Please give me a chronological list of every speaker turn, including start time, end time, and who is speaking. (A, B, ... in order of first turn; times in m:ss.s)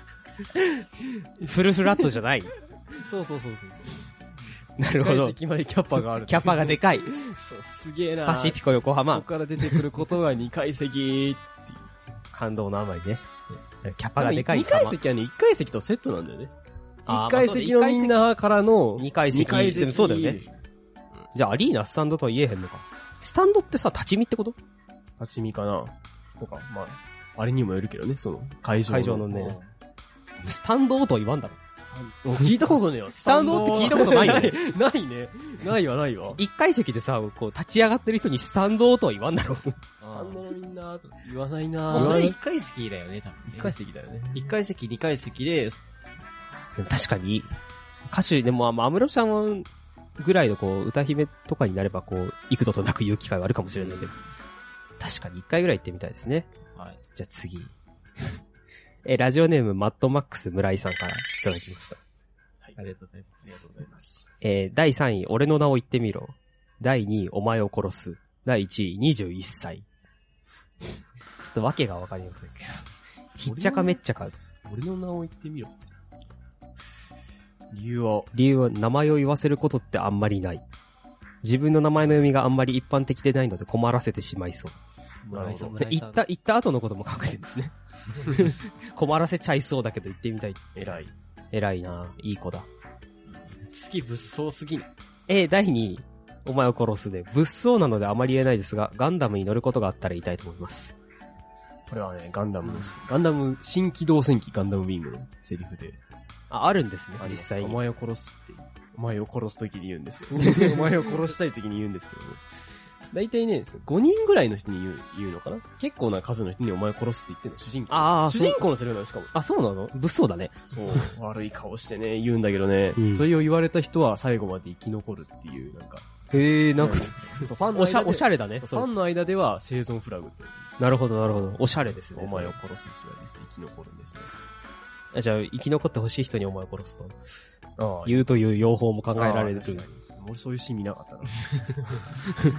0:01.4-0:02.5 A
0:02.9-0:04.1 B
0:04.8-0:11.9 B
0:04.8-0:05.4 A
0:06.3-0:07.1 A
0:08.2-0:09.8 A
0:12.3-0:13.3 A
0:13.8-0:15.0 A
0:14.2-0:16.5 B
0:17.1-0:18.2 A
0:17.1-0:20.6 B
0:19.0-0:20.4 A
0:21.3-0:24.6 A
0:25.2-0:29.6 B
0:28.9-0:29.6 A
0:30.4-0:31.6 A
0:31.8-0:36.4 B
0:33.2-0:34.6 A
0:33.3-0:34.5 C
0:36.4-0:39.8 A
0:40.0-0:40.4 C
0:40.0-0:42.4 B
0:41.9-0:43.8 C
0:41.9-0:42.4 A
0:43.5-0:44.6 B
0:44.3-0:45.8 C
0:46.8-0:47.5 A
0:48.1-0:49.7 A
0:50.2-0:54.1 A
0:53.8-0:54.0 C
0:55.0-0:56.5 A
0:56.8-0:57.0 C
0:57.2-0:57.7 A
0:59.0-1:02.0 A
1:02.8-1:04.0 C
1:03.4-1:04.2 B
1:04.4-1:09.9 A
1:11.4-1:14.3 A
1:13.4-1:14.0 B
1:14.6-1:15.9 B
1:17.7-1:18.3 B
1:18.3-1:20.6 A
1:21.4-1:24.8 A
1:25.3-1:25.8 B
1:25.3-1:26.2 C
1:25.7-1:30.7 A
1:30.8-1:31.1 B
1:31.5-1:32.6 A
1:33.4-1:34.9 C
1:35.3-1:40.9 A
1:41.9-1:46.0 B
1:46.5-1:47.8 A
1:47.2-1:52.4 B
1:53.1-1:59.4 B
1:57.9-1:58.6 A
1:59.3-2:01.1 A
2:00.7-2:06.1 B
2:03.0-2:03.3 A
2:06.3-2:08.9 A
2:06.8-2:10.7 B
2:10.8-2:12.6 A
2:12.1-2:14.3 B
2:15.1-2:17.2 A
2:17.8-2:18.4 B
2:18.0-2:19.9 A
2:19.1-2:22.3 B